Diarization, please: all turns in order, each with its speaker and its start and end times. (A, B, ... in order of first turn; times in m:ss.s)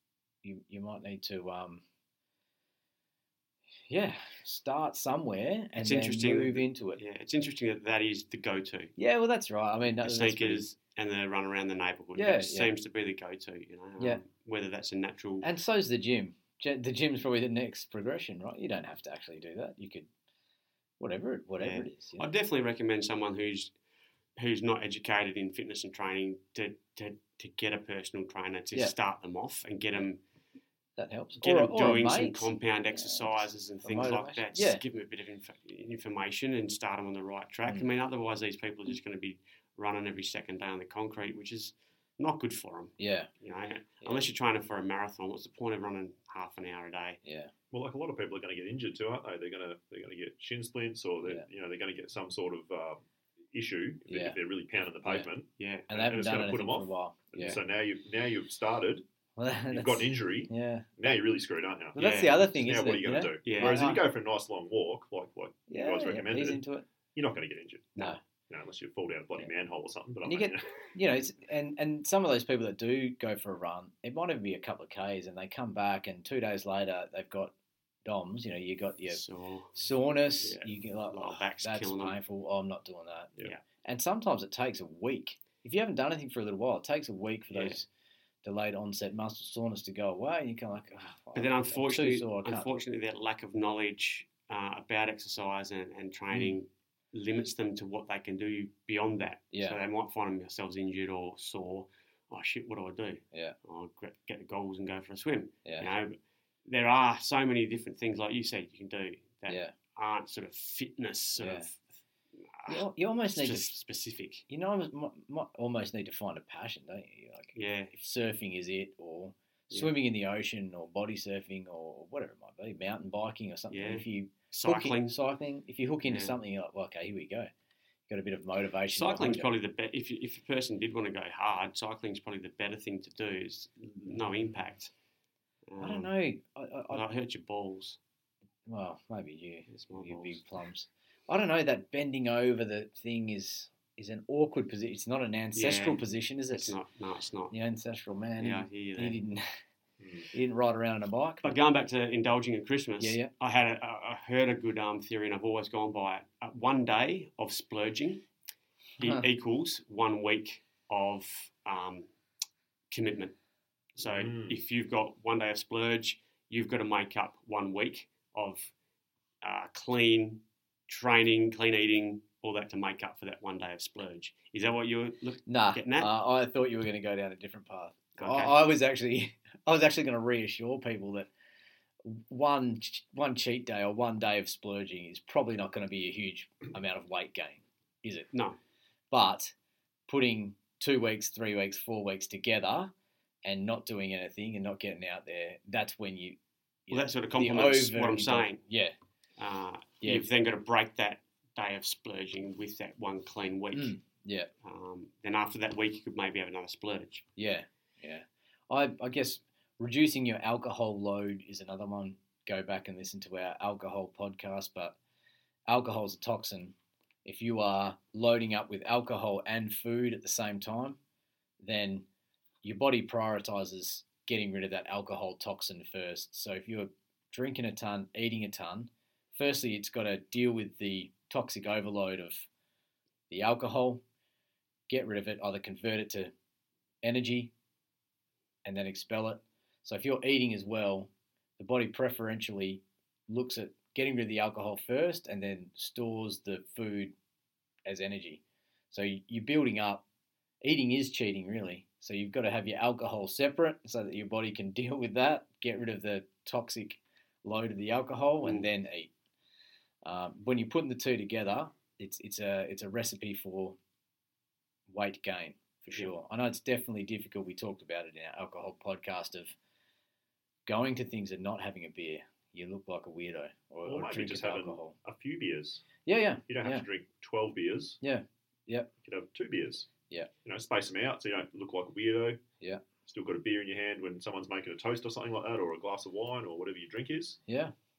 0:00.4-0:01.8 A
0:03.9-0:07.0 A
0:05.8-0:08.9 B
0:09.0-0:10.6 A
0:09.8-0:15.5 B
0:12.2-0:12.7 A
0:15.4-0:20.1 A
0:21.0-0:22.2 A
0:21.6-0:23.7 B
0:24.4-0:30.2 B
0:31.0-0:34.8 A
0:31.4-0:47.2 B
0:43.0-0:43.3 A
0:44.0-0:44.3 A
0:47.2-0:47.5 A
0:47.7-0:53.0 C
0:53.5-0:55.5 C
0:54.1-0:54.4 A
0:55.0-0:55.3 A
0:55.6-0:56.6 B
0:55.9-0:57.6 A
0:56.0-0:59.0 C
0:59.4-1:00.9 A
0:59.7-1:06.6 C
1:01.9-1:04.0 A
1:02.0-1:02.5 B
1:03.4-1:04.0 B
1:05.7-1:06.8 A
1:07.1-1:10.9 C
1:10.2-1:17.5 A
1:18.0-1:19.2 A
1:19.1-1:19.8 B
1:19.7-1:27.9 A
1:20.4-1:22.2 B
1:27.5-1:27.8 B
1:28.4-1:32.7 A
1:31.3-1:51.9 B
1:36.3-1:36.6 A
1:39.5-1:39.8 A
1:49.5-1:49.7 A
1:51.4-1:51.7 A
1:52.5-1:54.4 B
1:52.7-1:53.8 A
1:54.5-2:07.5 A
1:57.5-1:58.0 B
2:03.7-2:05.2 B
2:06.0-2:06.3 B
2:08.1-2:09.5 A
2:08.9-2:14.9 B
2:15.7-2:16.1 B
2:15.8-2:17.0 A
2:16.9-2:18.0 B
2:18.6-2:26.8 A
2:19.7-2:20.4 B
2:25.5-2:27.5 B
2:27.5-2:29.4 A
2:28.4-2:29.2 B
2:30.0-2:30.3 C
2:30.3-2:31.6 A
2:31.4-2:38.2 B
2:33.0-2:33.3 A
2:39.0-2:42.1 B
2:39.0-2:39.2 A
2:42.9-2:43.3 B
2:44.0-2:48.7 B
2:44.0-2:44.6 C
2:49.4-2:56.1 B
2:55.5-3:01.3 A
2:58.2-2:58.5 B
3:02.0-3:08.3 A
3:08.3-3:08.6 B
3:09.1-3:09.5 A
3:10.1-3:12.9 A
3:13.4-3:18.9 A
3:16.9-3:18.6 B
3:19.4-3:24.0 B
3:23.7-3:24.5 A
3:24.6-3:27.2 B
3:27.4-3:35.0 A
3:35.7-3:36.7 A
3:37.2-3:41.0 A
3:41.6-3:42.0 A
3:42.6-3:52.5 A
3:53.3-3:54.0 A
3:54.9-3:56.3 A
3:57.0-3:57.5 A
3:58.6-4:07.1 A
4:07.8-4:10.0 A
4:10.6-4:19.1 A
4:18.4-4:18.7 B
4:20.0-4:23.8 A
4:24.9-4:29.5 A
4:30.6-4:35.0 A
4:33.8-4:35.9 C
4:36.0-4:36.8 A
4:36.5-4:38.0 C
4:38.0-4:38.9 A
4:39.0-4:39.9 C
4:40.4-4:42.4 C
4:43.1-4:47.4 C
4:47.5-4:47.7 A